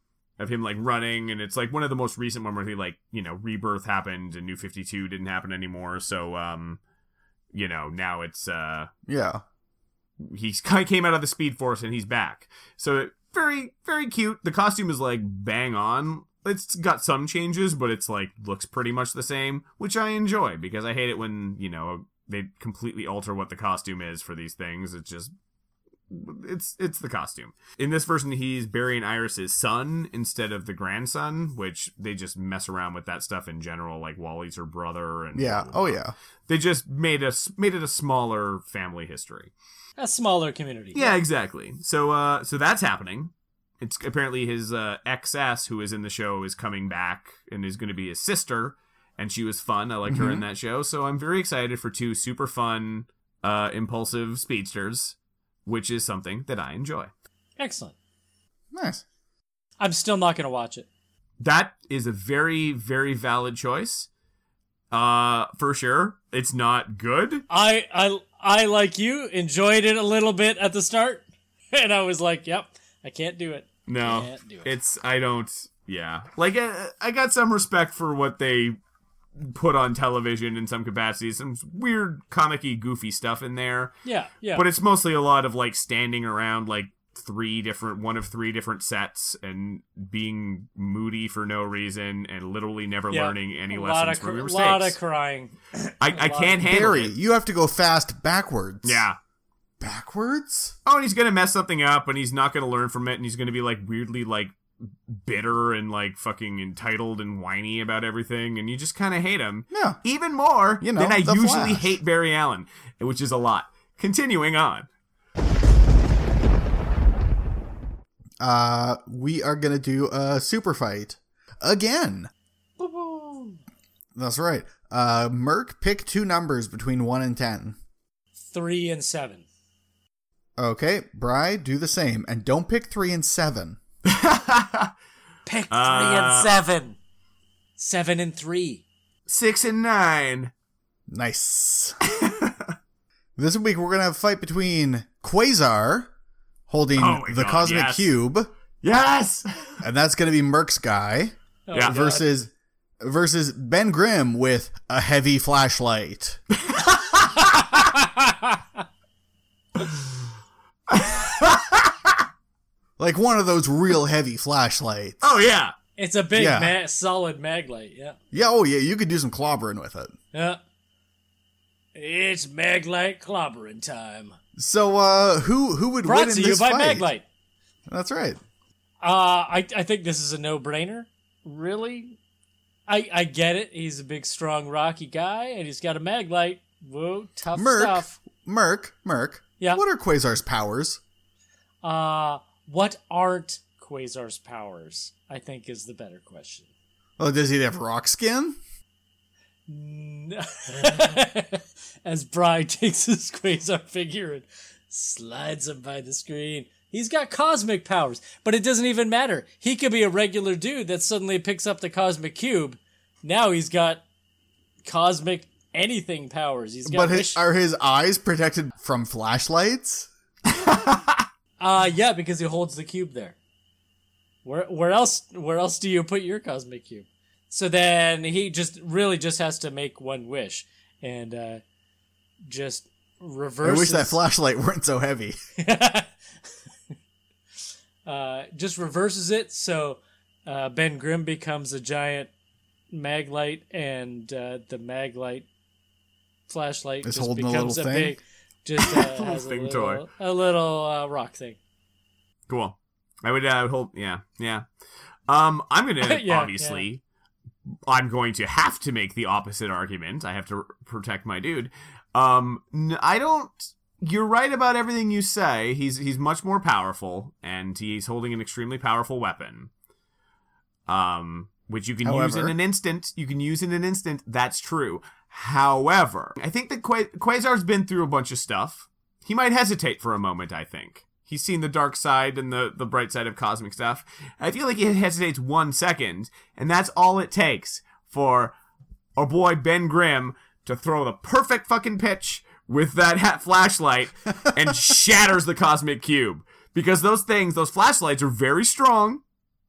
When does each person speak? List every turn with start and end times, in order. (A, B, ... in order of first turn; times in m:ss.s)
0:00.4-0:06.8 A
0:07.5-0:08.9 A
0:09.1-0:09.4 B
0:10.2-0:25.3 A
0:26.1-0:39.5 A
0:35.4-0:36.1 B
0:40.0-0:41.2 C
0:41.0-0:57.1 A
0:50.1-0:50.4 B
0:57.6-0:57.9 C
0:58.7-0:59.0 B
0:59.8-1:00.9 C
1:01.4-1:04.1 A
1:04.9-1:07.4 A
1:07.5-1:14.7 C
1:13.9-1:18.8 A
1:19.4-1:23.9 A
1:24.0-1:24.6 C
1:24.5-1:35.0 A
1:33.1-1:36.6 C
1:36.0-1:37.1 A
1:36.6-1:39.0 B
1:38.8-1:39.2 A
1:39.8-1:40.8 B
1:40.9-1:44.6 A
1:45.1-1:54.9 A
1:49.7-1:50.0 B
1:50.8-1:52.0 B
1:58.4-2:02.3 B
2:02.8-2:03.5 C
2:04.2-2:07.8 B
2:08.5-2:09.4 C
2:10.6-2:13.8 B
2:14.0-2:14.9 A
2:15.5-2:17.0 C
2:15.7-2:16.6 A
2:17.8-2:18.8 C
2:19.3-2:20.5 A
2:21.1-2:22.0 B
2:22.1-2:22.6 A
2:23.4-2:26.1 B
2:26.7-2:28.5 B
2:27.0-2:28.1 A
2:28.8-2:29.8 A
2:29.8-2:36.4 B
2:31.7-2:32.3 C
2:36.7-2:37.5 A
2:40.9-2:41.9 A
2:43.0-2:45.2 B
2:45.2-2:45.8 A
2:46.0-2:48.2 C
2:46.3-2:46.7 B
2:48.3-2:50.2 B
2:50.3-2:50.6 C
2:52.0-2:54.4 C
2:54.6-2:57.1 B
2:56.0-2:57.2 C
2:57.9-2:58.4 B
2:59.0-3:02.2 C
3:02.9-3:08.2 C
3:07.5-3:11.0 B
3:11.8-3:16.7 C
3:17.2-3:18.6 B
3:19.7-3:34.0 C
3:34.8-3:37.4 C
3:36.9-3:40.1 B
3:40.7-3:41.0 A
3:41.6-3:43.4 C
3:44.4-3:51.6 C
3:52.4-3:54.2 C
3:53.6-3:55.4 B
3:55.6-3:56.1 C
3:58.0-4:02.3 C
4:02.9-4:05.5 C
4:06.5-4:11.6 C
4:07.0-4:08.2 B
4:08.9-4:10.0 A
4:12.5-4:14.6 A
4:15.3-4:17.0 A
4:16.0-4:16.9 C
4:17.9-4:29.7 A
4:30.9-4:48.6 A
4:32.0-4:32.6 B
4:49.2-4:59.2 A